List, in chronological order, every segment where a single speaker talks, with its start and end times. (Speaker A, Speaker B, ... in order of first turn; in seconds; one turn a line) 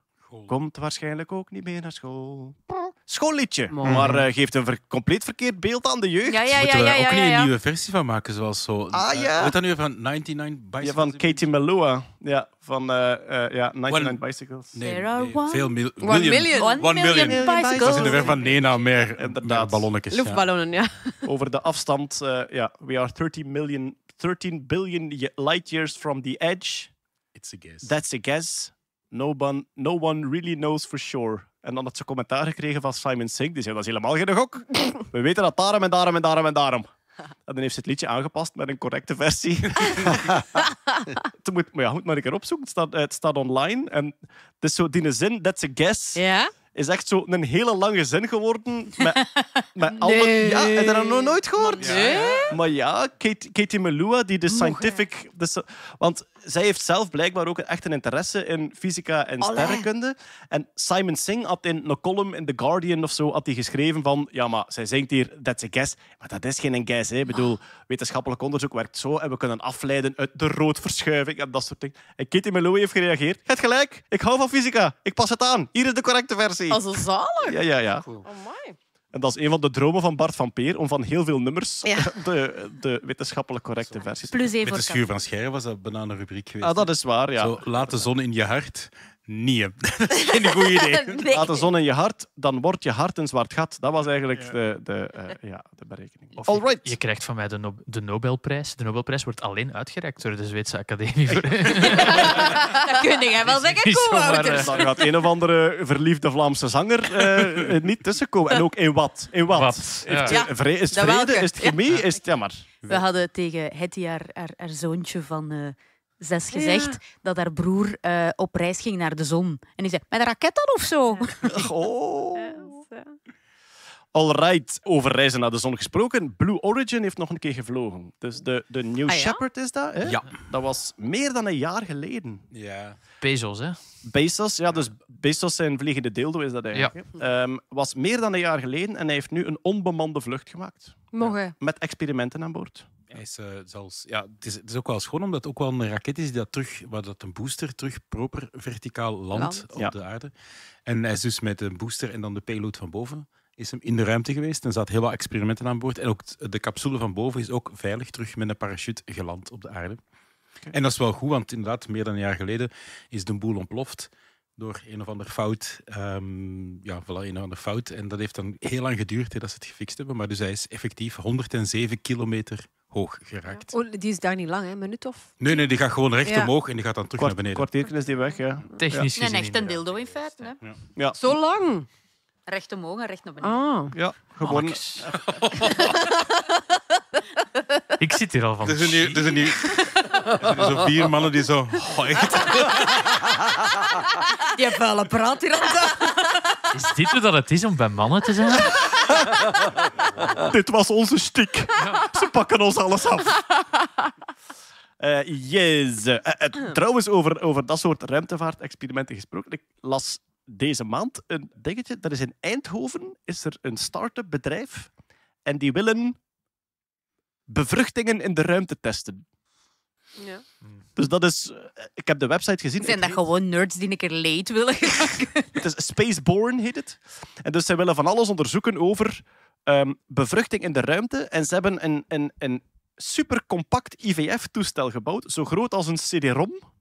Speaker A: 0.3-0.5
Speaker B: 0.5-6.5
Speaker C: 3.7-4.2
Speaker D: 6.3-7.5
Speaker A: 6.5-11.5
Speaker B: 8.9-9.6
Speaker B: 10.8-14.8
Speaker A: 13.9-20.5
Speaker D: 14.8-15.8
Speaker C: 16.0-16.9
Speaker D: 16.5-18.4
Speaker B: 17.2-19.9
Speaker C: 20.1-21.2
Speaker B: 21.2-26.9
Speaker A: 27.4-27.9
Speaker B: 27.8-36.9
Speaker B: 37.5-40.4
Speaker C: 40.6-41.2
Speaker B: 41.4-78.1
Speaker C: 46.2-46.5
Speaker D: 49.4-49.6
Speaker C: 50.0-52.5
Speaker A: 51.8-52.5
Speaker C: 54.5-55.0
Speaker C: 59.4-59.9
Speaker C: 76.7-77.6
Speaker C: 78.2-78.8
Speaker B: 79.1-84.5
Speaker C: 81.8-82.2
Speaker D: 84.3-85.0
Speaker A: 84.6-91.2
Speaker B: 86.6-88.1
Speaker D: 91.0-91.7
Speaker B: 91.2-96.9
Speaker E: 96.5-102.8
Speaker B: 101.3-101.7
Speaker D: 102.0-105.0
Speaker C: 102.2-102.9
Speaker E: 103.5-105.0
Speaker B: 104.4-112.7
Speaker E: 109.5-110.4
Speaker C: 110.3-112.0
Speaker D: 112.8-121.7
Speaker C: 116.5-117.0
Speaker B: 121.5-122.7
Speaker C: 122.4-123.2
Speaker B: 124.1-132.4
Speaker C: 129.1-129.4
Speaker A: 130.0-130.3
Speaker A: 132.5-133.0
Speaker E: 133.2-133.8
Speaker B: 134.0-142.9
Speaker C: 141.1-141.6
Speaker A: 143.1-150.3
Speaker C: 149.3-149.7
Speaker A: 150.9-160.0
Speaker A: 160.7-173.7
Speaker C: 173.5-175.6
Speaker A: 175.4-177.7
Speaker C: 176.2-176.5
Speaker B: 177.2-179.1
Speaker E: 178.8-179.8
Speaker D: 179.1-180.6
Speaker B: 181.0-181.3
Speaker C: 181.2-181.9
Speaker D: 182.5-183.7
Speaker C: 183.4-183.9
Speaker B: 183.9-185.1
Speaker E: 184.4-185.1
Speaker A: 185.1-185.9
Speaker C: 185.7-186.2
Speaker E: 188.0-189.4
Speaker A: 188.7-193.0
Speaker D: 194.5-196.4
Speaker E: 196.7-198.8
Speaker B: 200.4-203.4
Speaker B: 205.0-214.9
Speaker B: 215.5-216.2
Speaker B: 217.5-219.2
Speaker C: 220.2-220.4
Speaker B: 221.0-223.2
Speaker D: 222.8-225.5
Speaker B: 225.6-236.6